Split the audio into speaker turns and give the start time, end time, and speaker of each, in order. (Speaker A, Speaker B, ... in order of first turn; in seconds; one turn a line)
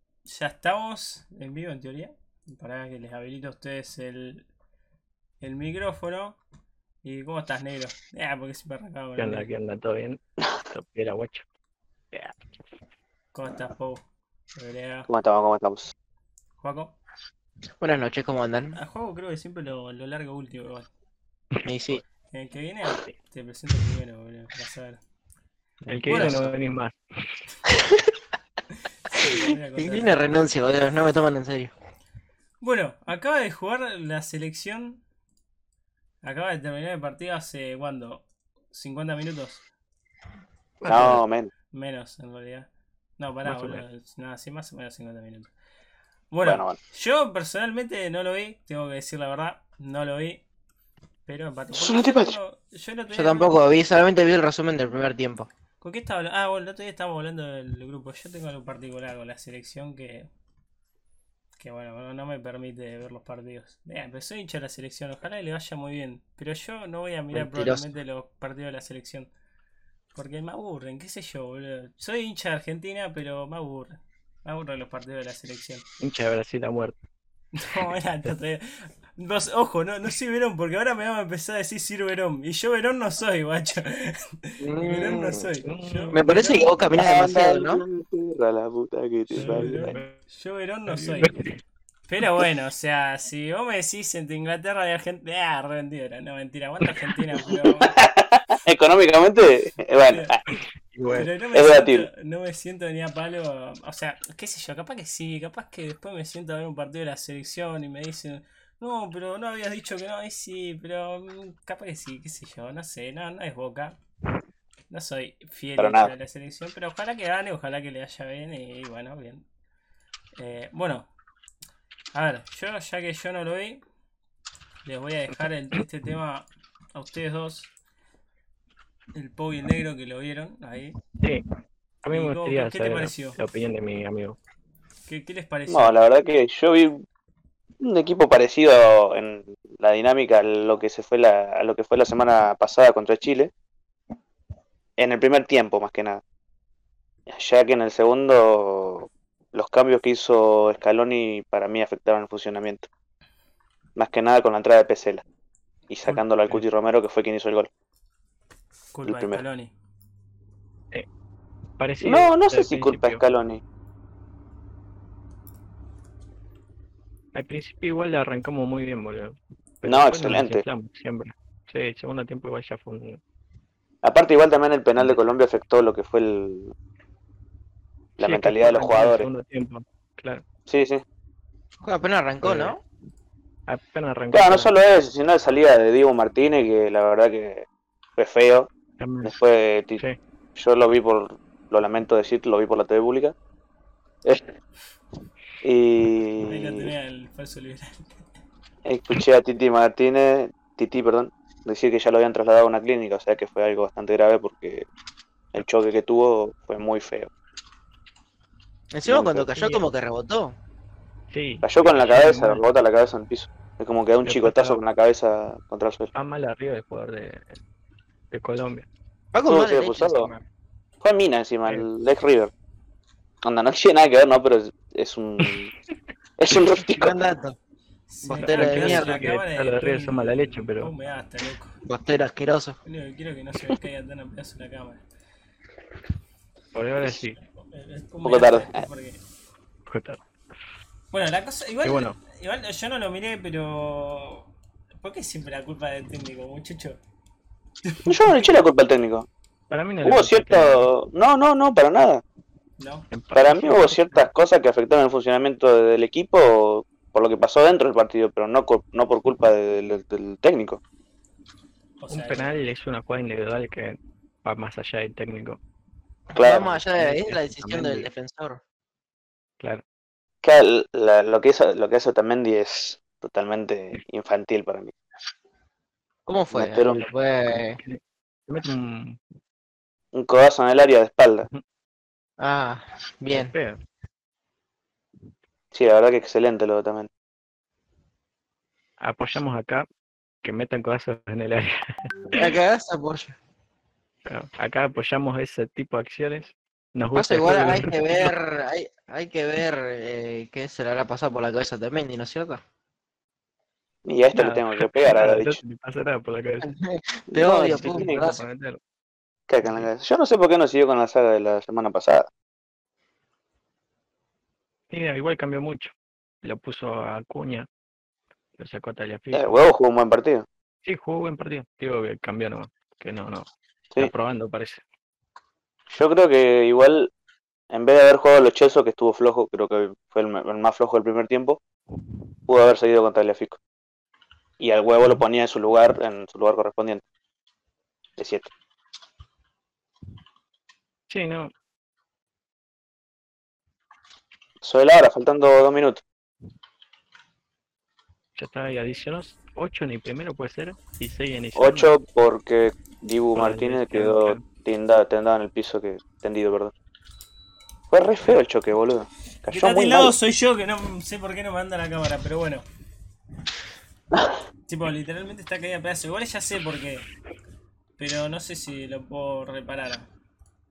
Speaker A: 0.2-4.4
Speaker A: 5.4-6.4
Speaker A: 7.0-9.5
Speaker B: 9.2-11.4
Speaker A: 13.3-14.0
Speaker A: 14.6-15.1
Speaker C: 15.1-15.9
Speaker A: 16.6-16.9
Speaker D: 17.8-18.8
Speaker A: 18.7-20.9
Speaker D: 21.6-22.0
Speaker A: 22.3-25.0
Speaker B: 25.8-27.0
Speaker A: 26.1-26.5
Speaker D: 26.1-26.5
Speaker A: 29.1-30.3
Speaker D: 29.8-31.7
Speaker A: 32.6-35.0
Speaker A: 36.2-39.6
Speaker B: 40.8-41.2
Speaker C: 40.8-41.5
Speaker A: 41.7-42.7
Speaker A: 43.2-45.5
Speaker B: 43.4-43.8
Speaker A: 46.3-50.4
Speaker C: 46.4-46.8
Speaker A: 51.2-53.6
Speaker C: 51.7-52.4
Speaker D: 53.1-55.5
Speaker A: 55.8-60.3
Speaker A: 61.6-69.3
Speaker D: 67.3-67.9
Speaker A: 70.1-75.8
Speaker B: 76.0-77.0
Speaker A: 77.5-86.8
Speaker D: 84.6-85.4
Speaker B: 85.6-86.2
Speaker D: 86.1-87.8
Speaker C: 86.9-90.0
Speaker B: 89.3-90.0
Speaker A: 89.3-91.3
Speaker B: 90.9-91.6
Speaker A: 92.1-97.9
Speaker C: 97.8-100.4
Speaker A: 100.0-100.3
Speaker B: 100.5-101.3
Speaker A: 101.1-114.0
Speaker C: 101.5-102.1
Speaker A: 114.9-119.4
Speaker C: 115.8-116.1
Speaker A: 120.3-121.1
Speaker A: 122.1-123.8
Speaker A: 124.8-127.7
Speaker A: 129.1-131.0
Speaker B: 131.2-131.4
Speaker B: 132.0-134.4
Speaker A: 132.1-133.4
Speaker A: 135.1-135.9
Speaker C: 135.7-137.0
Speaker C: 137.8-143.5
Speaker C: 145.0-146.2
Speaker C: 147.3-152.9
Speaker C: 153.9-155.2
Speaker C: 155.9-157.7
Speaker A: 158.9-159.7
Speaker C: 159.0-159.4
Speaker B: 161.8-163.2
Speaker C: 162.0-163.6
Speaker B: 167.3-173.2
Speaker C: 169.8-170.6
Speaker C: 174.0-176.7
Speaker C: 178.2-179.2
Speaker B: 178.2-180.4
Speaker C: 180.7-181.0
Speaker D: 181.8-182.8
Speaker B: 182.4-182.8
Speaker B: 183.7-184.7
Speaker C: 184.3-187.6
Speaker C: 188.2-188.7
Speaker B: 189.0-189.3
Speaker C: 189.2-190.0
Speaker C: 190.6-193.3
Speaker C: 194.2-194.5
Speaker C: 195.6-196.9
Speaker A: 196.4-198.2
Speaker C: 198.8-204.9
Speaker C: 205.5-207.3
Speaker D: 208.9-210.5
Speaker C: 209.1-209.8
Speaker B: 211.3-212.6
Speaker C: 211.6-216.1
Speaker B: 214.2-214.8
Speaker B: 216.1-217.6
Speaker B: 218.3-218.9
Speaker D: 219.3-220.4
Speaker C: 219.5-220.3
Speaker C: 221.0-222.5
Speaker C: 223.4-225.7
Speaker C: 226.4-227.1
Speaker D: 226.9-227.6
Speaker A: 228.1-231.8
Speaker D: 228.2-229.2
Speaker B: 228.3-230.9
Speaker D: 231.8-232.8
Speaker A: 232.8-235.0
Speaker B: 236.7-237.4
Speaker A: 237.5-239.2
Speaker C: 238.2-238.8
Speaker B: 239.9-240.2
Speaker A: 241.1-244.5
Speaker B: 241.8-242.2
Speaker A: 245.0-247.0
Speaker A: 247.9-248.1
Speaker C: 248.1-249.3
Speaker B: 249.7-250.9
Speaker C: 250.0-252.2
Speaker A: 252.8-253.1
Speaker B: 253.1-254.3
Speaker C: 253.3-260.8
Speaker A: 262.0-262.6
Speaker B: 262.1-265.6
Speaker D: 266.3-268.6
Speaker C: 266.3-266.8
Speaker B: 267.0-268.1
Speaker C: 270.4-274.9
Speaker D: 276.2-277.8
Speaker C: 276.5-277.0
Speaker B: 277.0-279.2
Speaker C: 280.1-281.5
Speaker D: 282.4-283.5
Speaker B: 283.3-283.8
Speaker C: 285.7-287.1
Speaker B: 289.0-289.9
Speaker B: 290.4-292.3
Speaker D: 292.3-293.3
Speaker B: 294.2-298.3
Speaker D: 297.1-302.6
Speaker C: 304.1-305.6
Speaker B: 304.3-306.7
Speaker D: 306.6-308.4
Speaker C: 307.3-308.4
Speaker B: 307.4-308.8
Speaker C: 309.5-312.3
Speaker B: 309.6-309.9
Speaker B: 314.9-315.9
Speaker B: 316.4-317.7
Speaker B: 318.6-319.7
Speaker C: 319.3-320.4
Speaker B: 320.8-324.8
Speaker C: 325.9-327.1
Speaker C: 327.7-331.6
Speaker C: 332.5-333.6
Speaker C: 334.6-337.0
Speaker C: 338.2-338.5
Speaker B: 341.1-341.5
Speaker C: 344.6-346.0
Speaker B: 348.4-351.9
Speaker C: 351.6-356.7
Speaker B: 353.3-354.4
Speaker C: 357.9-360.1
Speaker A: 359.5-362.6
Speaker A: 364.7-367.1
Speaker A: 368.0-370.1